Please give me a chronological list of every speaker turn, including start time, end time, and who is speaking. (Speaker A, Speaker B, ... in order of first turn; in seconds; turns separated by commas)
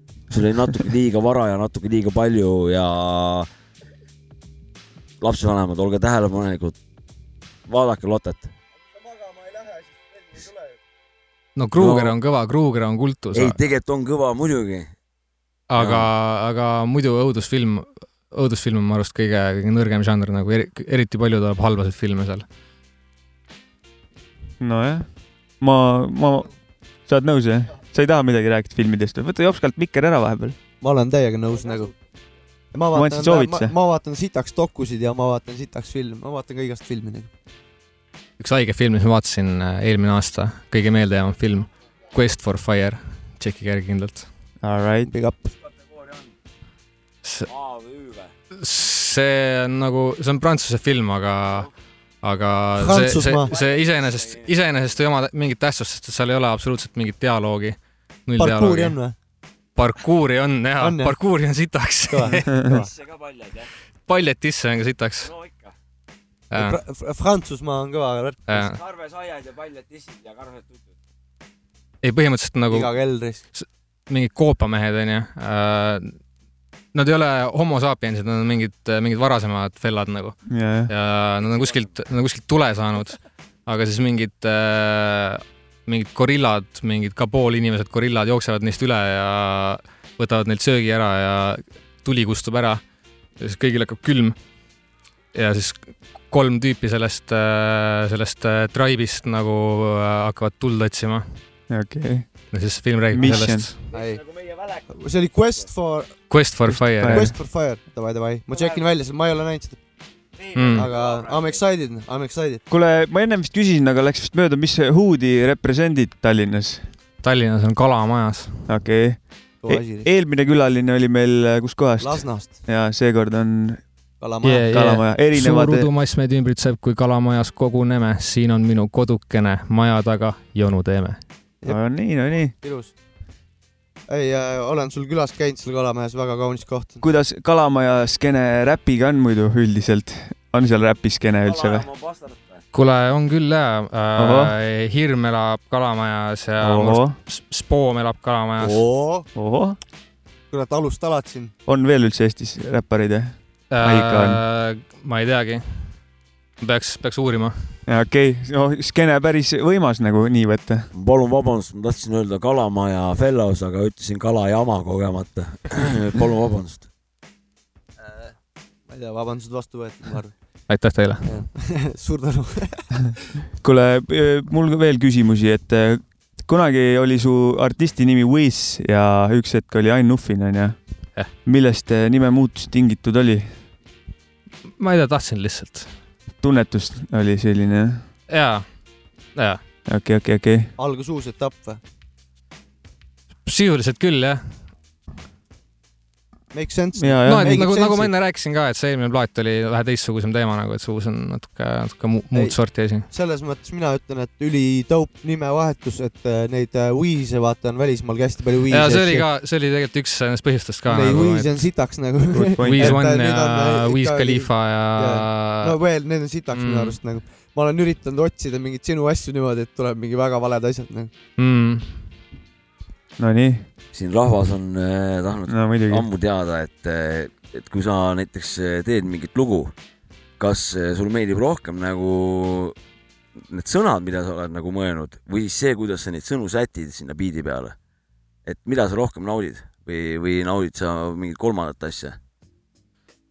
Speaker A: 0.3-3.5, Speaker A: 5.2-6.8, Speaker A: 7.7-8.5, Speaker B: 11.6-13.6, Speaker A: 11.8-12.1, Speaker A: 13.3-14.9, Speaker B: 15.7-22.5, Speaker A: 15.8-16.1, Speaker C: 24.6-30.6, Speaker D: 30.8-31.9, Speaker D: 32.7-37.3, Speaker C: 32.9-33.7, Speaker B: 38.4-44.3, Speaker C: 44.6-45.1, Speaker D: 45.1-45.5, Speaker B: 47.2-47.5, Speaker A: 47.5-48.3, Speaker B: 48.5-51.7, Speaker B: 52.2-59.0, Speaker D: 52.8-53.5, Speaker A: 54.0-54.5, Speaker D: 58.4-59.2, Speaker B: 59.8-62.5, Speaker D: 60.8-61.1, Speaker D: 62.1-62.9, Speaker A: 63.2-63.5, Speaker B: 64.1-65.3, Speaker B: 66.5-66.8, Speaker D: 66.5-68.7, Speaker B: 68.5-68.8, Speaker A: 69.1-70.6, Speaker B: 72.0-72.9, Speaker D: 72.7-73.5, Speaker B: 73.5-76.2, Speaker B: 76.9-92.8, Speaker C: 80.5-80.9, Speaker B: 93.4-94.4, Speaker B: 95.3-101.4, Speaker C: 101.7-102.3, Speaker B: 102.5-103.8, Speaker C: 103.1-103.7, Speaker D: 103.9-104.2, Speaker D: 104.9-106.3, Speaker B: 106.3-107.3, Speaker C: 106.7-107.3, Speaker D: 107.0-109.8, Speaker B: 110.5-110.9, Speaker D: 110.7-112.6, Speaker C: 112.7-116.9, Speaker B: 117.2-118.7, Speaker C: 118.7-123.9, Speaker D: 119.6-120.1, Speaker D: 122.0-122.7, Speaker D: 124.2-124.7, Speaker B: 124.4-131.2, Speaker C: 124.7-125.9, Speaker D: 131.6-132.9, Speaker C: 131.7-132.5, Speaker D: 134.1-137.0, Speaker C: 137.0-141.9, Speaker A: 141.4-142.6, Speaker B: 142.7-148.8, Speaker C: 144.2-144.5, Speaker C: 146.6-147.2, Speaker D: 148.6-149.3, Speaker C: 149.4-149.8, Speaker D: 150.5-151.5, Speaker C: 151.7-154.4, Speaker B: 153.7-156.0, Speaker B: 156.6-157.8, Speaker C: 157.9-160.9, Speaker A: 160.9-166.9, Speaker D: 168.9-170.4, Speaker B: 170.7-171.3, Speaker D: 171.2-173.2, Speaker C: 173.6-183.6, Speaker B: 184.8-185.9, Speaker C: 186.4-188.0, Speaker B: 188.3-188.7, Speaker B: 189.3-189.6, Speaker C: 189.9-190.7, Speaker D: 190.8-191.8, Speaker B: 193.4-194.6, Speaker D: 196.5-198.1, Speaker C: 197.0-197.5, Speaker B: 197.2-203.1, Speaker D: 202.3-209.2, Speaker B: 208.7-211.7, Speaker D: 210.9-221.1, Speaker C: 212.4-213.1, Speaker B: 212.6-215.8, Speaker B: 216.5-217.0, Speaker B: 221.4-222.1, Speaker C: 223.2-223.7, Speaker A: 223.9-229.7, Speaker C: 225.5-226.1, Speaker A: 230.4-232.8, Speaker A: 233.5-237.8, Speaker A: 238.5-242.2